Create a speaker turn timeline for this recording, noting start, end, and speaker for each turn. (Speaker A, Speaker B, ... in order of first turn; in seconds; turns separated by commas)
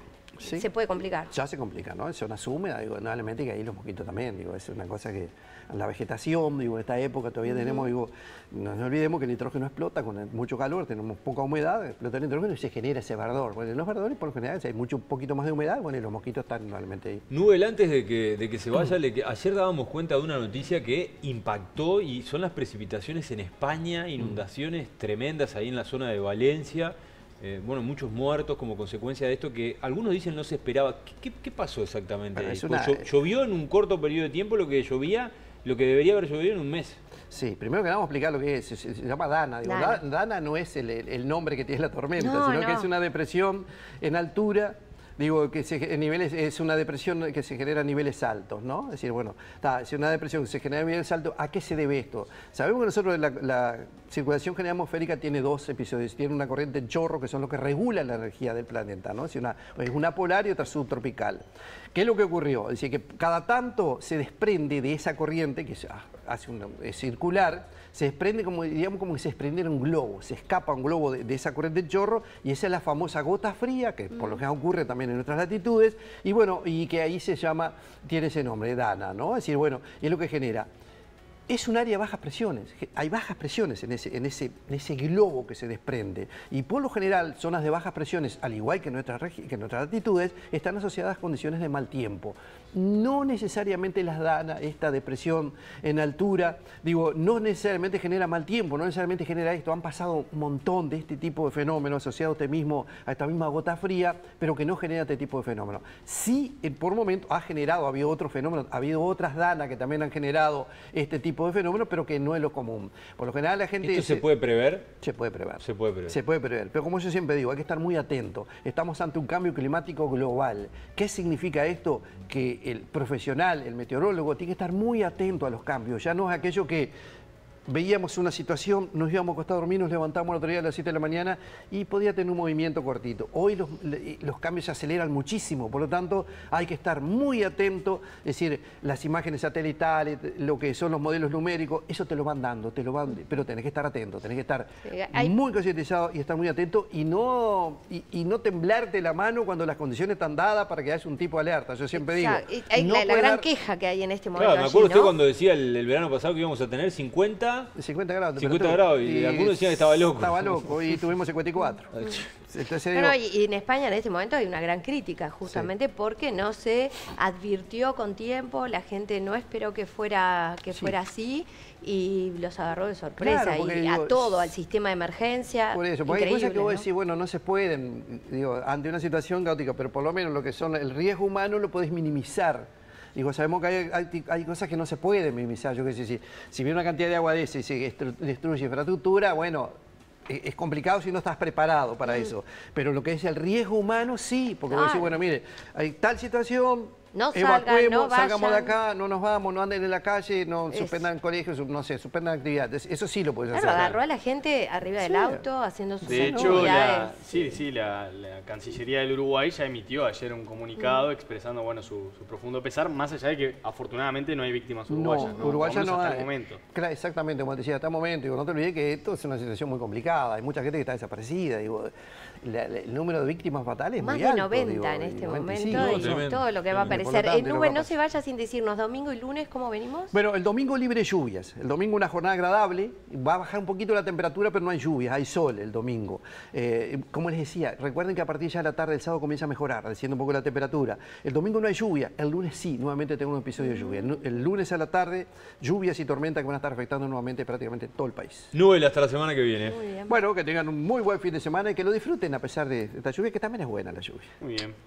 Speaker A: 0.4-0.7, Speaker B: 0.4-1.3, Speaker A: 1.3-17.2, Speaker B: 7.5-7.9, Speaker C: 17.3-37.0, Speaker A: 32.4-33.1, Speaker A: 37.3-61.4, Speaker B: 39.6-40.0, Speaker B: 42.2-42.9, Speaker A: 61.9-80.7, Speaker B: 74.1-74.4, Speaker A: 81.5-114.2, Speaker C: 113.8-114.9, Speaker A: 115.0-126.9, Speaker C: 115.6-116.2, Speaker A: 127.7-153.5, Speaker B: 144.8-145.3, Speaker B: 151.9-155.2, Speaker C: 154.4-157.7, Speaker A: 157.8-163.2, Speaker C: 158.4-160.8, Speaker C: 161.9-162.3, Speaker B: 162.9-176.8, Speaker A: 173.2-174.5, Speaker A: 175.7-189.7, Speaker A: 190.3-203.9, Speaker B: 194.7-195.1, Speaker B: 197.1-198.7, Speaker B: 200.7-201.1, Speaker B: 203.5-207.2, Speaker D: 203.6-204.0, Speaker A: 205.0-205.5, Speaker A: 206.1-206.8, Speaker D: 206.1-216.6, Speaker B: 210.8-211.1, Speaker A: 214.9-221.9, Speaker B: 215.2-215.7, Speaker A: 222.4-226.3, Speaker B: 224.0-230.1, Speaker C: 225.7-227.0, Speaker A: 226.8-227.9, Speaker A: 230.1-248.5, Speaker B: 243.6-244.0, Speaker C: 248.5-249.8, Speaker B: 249.6-250.2, Speaker A: 250.1-254.3, Speaker D: 254.4-254.8